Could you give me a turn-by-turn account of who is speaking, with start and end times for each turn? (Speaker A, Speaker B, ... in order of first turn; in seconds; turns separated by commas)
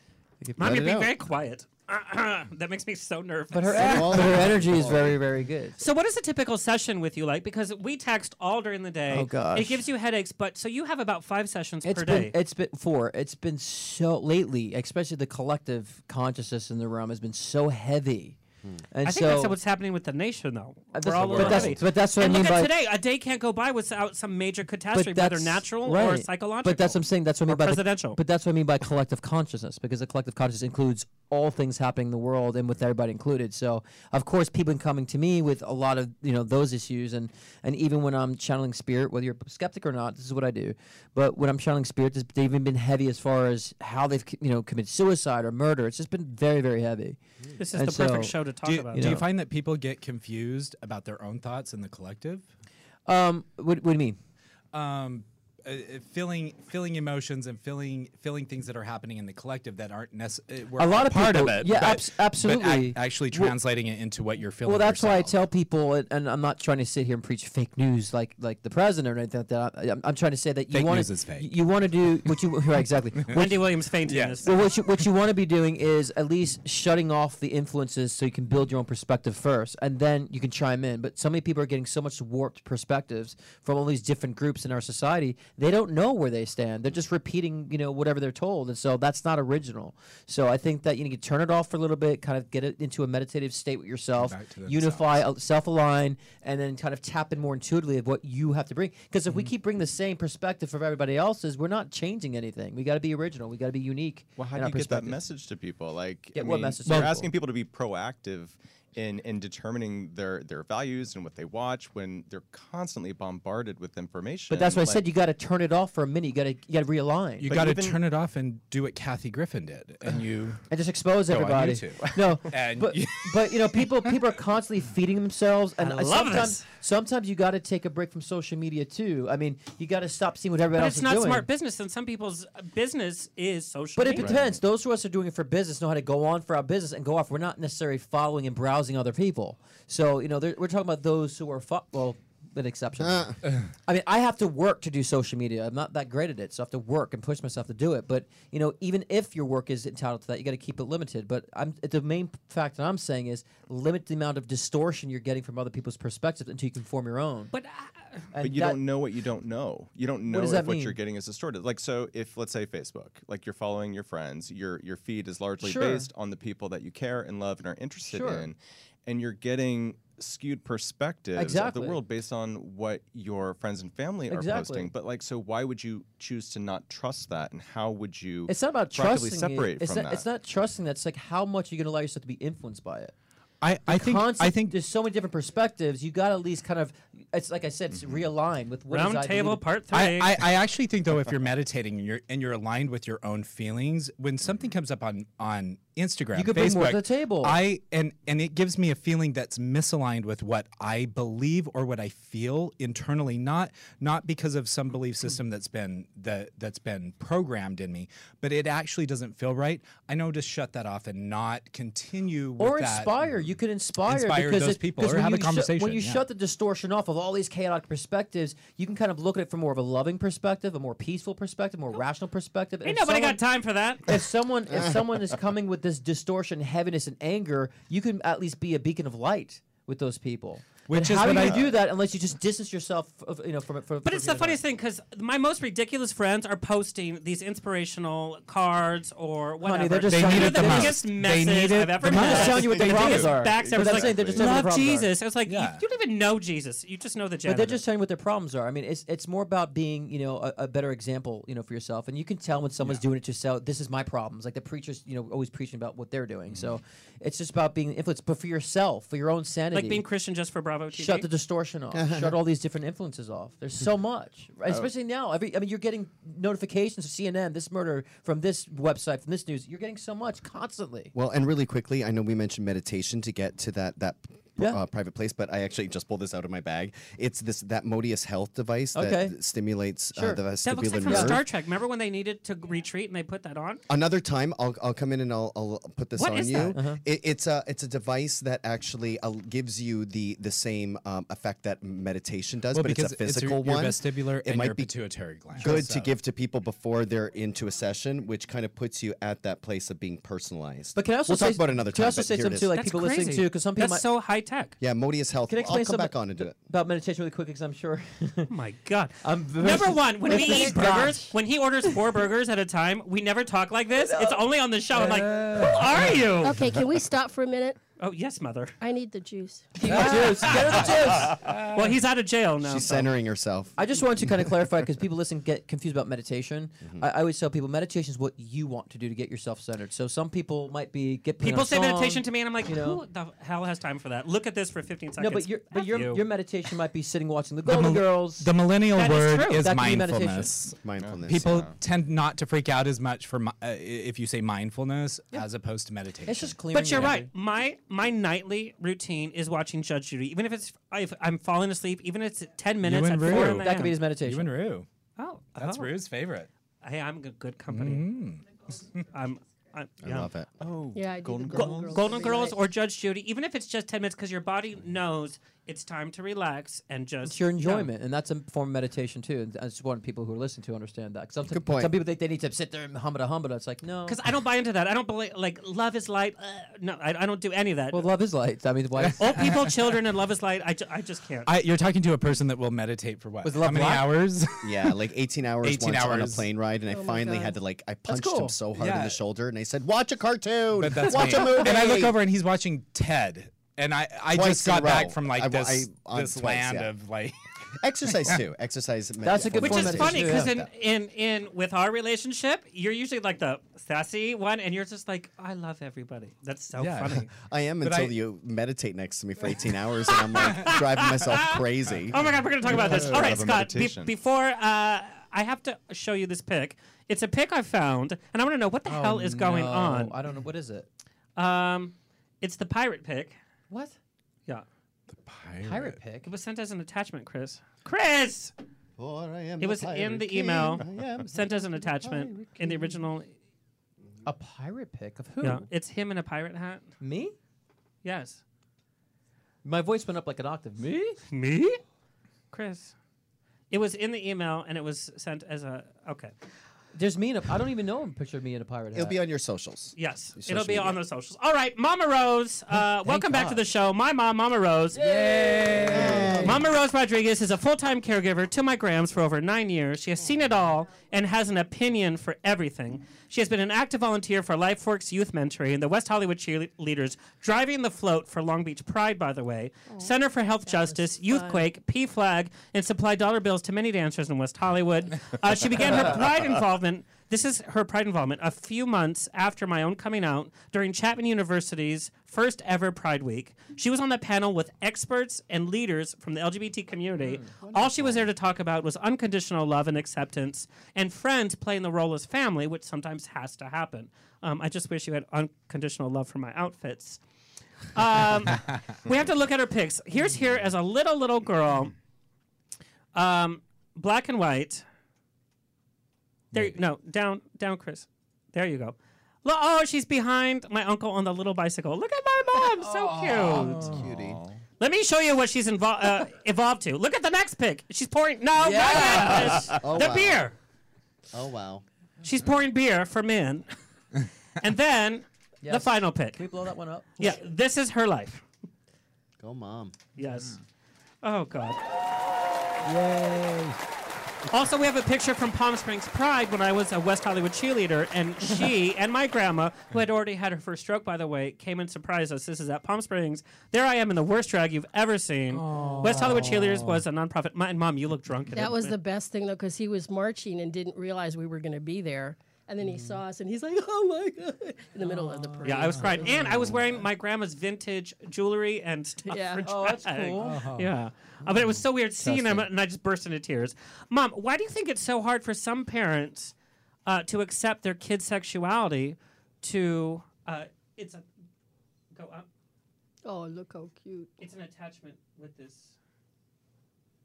Speaker A: 0.4-0.9, Speaker B: 0.6-4.5, Speaker C: 0.6-1.1, Speaker A: 3.5-5.8, Speaker C: 3.7-5.2, Speaker B: 5.8-12.3, Speaker A: 9.1-9.8, Speaker A: 11.8-18.4, Speaker A: 18.9-19.6, Speaker B: 19.1-28.2, Speaker A: 20.9-22.7, Speaker D: 21.1-21.8, Speaker A: 24.9-47.2, Speaker B: 47.6-49.2, Speaker A: 47.7-48.4, Speaker D: 48.6-52.5, Speaker A: 48.9-49.3, Speaker A: 53.1-54.2, Speaker D: 54.7-65.4, Speaker A: 60.8-63.5, Speaker A: 64.6-73.6, Speaker D: 70.7-71.5, Speaker D: 72.2-73.5, Speaker B: 73.3-74.5, Speaker D: 74.0-74.5, Speaker A: 74.4-105.2, Speaker D: 94.2-95.2, Speaker E: 104.4-115.0, Speaker A: 106.3-107.3, Speaker A: 114.5-117.5, Speaker D: 117.4-120.7, Speaker E: 117.5-118.0, Speaker A: 120.7-131.5, Speaker D: 121.3-124.2, Speaker B: 125.8-126.7, Speaker B: 130.8-134.3, Speaker A: 134.0-143.3, Speaker E: 134.2-134.6, Speaker C: 143.0-143.4, Speaker A: 143.8-157.5, Speaker B: 157.5-158.2, Speaker A: 158.3-158.8, Speaker E: 158.4-180.3, Speaker A: 160.3-161.0, Speaker A: 165.6-166.1, Speaker A: 168.1-168.5, Speaker A: 171.4-172.0, Speaker A: 174.3-174.9, Speaker A: 178.5-183.1, Speaker D: 183.6-184.8, Speaker A: 183.9-189.6, Speaker E: 187.9-188.3, Speaker B: 188.9-190.3, Speaker D: 189.9-213.5, Speaker A: 196.3-197.6, Speaker A: 212.6-223.4, Speaker D: 214.1-216.2, Speaker B: 222.8-224.2, Speaker A: 224.1-234.6, Speaker D: 230.9-231.7, Speaker E: 231.3-231.7, Speaker B: 234.0-247.8, Speaker A: 239.6-241.0, Speaker D: 240.1-242.9, Speaker A: 242.0-245.1, Speaker E: 242.2-244.7, Speaker D: 245.5-245.8, Speaker A: 247.5-260.0, Speaker B: 259.7-261.3, Speaker A: 260.9-271.1, Speaker C: 261.9-262.4, Speaker C: 271.1-281.4, Speaker A: 278.9-279.4, Speaker A: 280.1-280.4, Speaker B: 280.6-283.8, Speaker A: 281.1-281.4, Speaker C: 283.9-295.0, Speaker B: 286.2-286.8, Speaker A: 286.7-287.0, Speaker D: 292.7-296.1, Speaker C: 295.6-302.7, Speaker A: 295.6-295.9, Speaker A: 300.9-304.1, Speaker B: 302.7-304.8, Speaker C: 304.8-306.6, Speaker A: 305.5-308.5, Speaker B: 308.5-316.6, Speaker A: 309.2-311.4, Speaker F: 310.3-311.0, Speaker A: 314.1-314.4, Speaker A: 314.9-316.1, Speaker F: 316.4-317.8, Speaker B: 318.0-318.8, Speaker F: 318.8-320.1, Speaker A: 319.8-321.5, Speaker B: 319.9-320.5, Speaker D: 320.0-320.6, Speaker B: 321.4-323.1, Speaker C: 322.6-323.8, Speaker A: 323.8-333.0, Speaker B: 331.4-336.2, Speaker A: 335.2-338.5, Speaker D: 337.6-347.1, Speaker B: 338.9-339.6, Speaker A: 339.4-340.5, Speaker C: 340.8-341.7, Speaker E: 341.0-341.8, Speaker A: 346.2-347.3, Speaker B: 346.7-353.9, Speaker D: 352.8-354.9, Speaker A: 353.2-354.5, Speaker B: 355.2-355.9, Speaker D: 355.6-356.5, Speaker B: 356.8-358.1, Speaker D: 357.7-358.4, Speaker B: 359.1-360.3, Speaker C: 360.0-360.5, Speaker E: 360.6-362.4, Speaker F: 360.9-362.6, Speaker B: 361.5-367.9, Speaker A: 367.2-374.2, Speaker C: 371.5-371.9, Speaker B: 374.1-378.1, Speaker A: 377.9-379.5, Speaker D: 379.0-379.4, Speaker B: 379.2-381.5, Speaker D: 381.5-385.0, Speaker A: 383.4-384.2, Speaker C: 384.6-392.2, Speaker D: 385.6-386.5, Speaker F: 386.9-387.6, Speaker A: 388.1-388.5, Speaker D: 388.8-389.2, Speaker D: 390.8-397.4, Speaker C: 394.3-396.9, Speaker C: 397.8-400.7, Speaker A: 399.2-400.5, Speaker B: 399.6-407.3, Speaker D: 406.8-407.3, Speaker C: 407.5-412.3, Speaker D: 407.8-408.1, Speaker B: 410.4-411.6, Speaker B: 412.1-420.1, Speaker E: 412.6-414.1, Speaker A: 418.9-420.9, Speaker B: 421.4-423.4, Speaker A: 423.7-424.0, Speaker D: 425.1-426.0, Speaker A: 425.6-426.3, Speaker B: 426.2-428.5, Speaker C: 429.0-432.9, Speaker B: 429.6-433.3, Speaker A: 434.2-435.7, Speaker B: 435.4-436.9, Speaker A: 437.0-437.4, Speaker B: 438.0-438.4, Speaker A: 439.6-441.2, Speaker B: 441.3-441.8, Speaker B: 442.5-442.9, Speaker B: 443.7-446.3, Speaker A: 446.9-449.2, Speaker C: 448.9-451.0, Speaker B: 450.0-497.2, Speaker A: 453.1-453.6, Speaker D: 455.0-456.4, Speaker A: 455.0-456.6, Speaker C: 455.9-456.6, Speaker F: 470.6-471.7, Speaker A: 487.2-487.6, Speaker C: 487.6-487.9, Speaker B: 497.9-501.9, Speaker B: 503.1-504.8, Speaker B: 506.5-513.9, Speaker A: 512.8-514.1, Speaker E: 513.8-514.6, Speaker C: 513.9-514.4, Speaker B: 514.8-520.6, Speaker A: 518.6-519.7, Speaker C: 519.7-520.5, Speaker C: 521.3-521.8, Speaker B: 522.2-523.7, Speaker B: 524.6-526.4, Speaker A: 525.6-527.4, Speaker B: 527.2-528.4, Speaker C: 529.4-530.0, Speaker B: 530.2-530.6, Speaker B: 531.2-531.8, Speaker A: 532.8-533.8, Speaker B: 534.5-549.0, Speaker D: 545.6-546.9, Speaker A: 545.8-546.6, Speaker F: 548.5-556.6, Speaker D: 555.1-556.0, Speaker B: 555.6-566.5, Speaker A: 556.4-556.7, Speaker F: 559.3-559.7, Speaker A: 559.7-560.7, Speaker D: 560.4-560.9, Speaker A: 562.2-562.7, Speaker B: 567.1-571.2, Speaker B: 572.1-572.5, Speaker F: 573.2-574.3, Speaker B: 574.4-576.0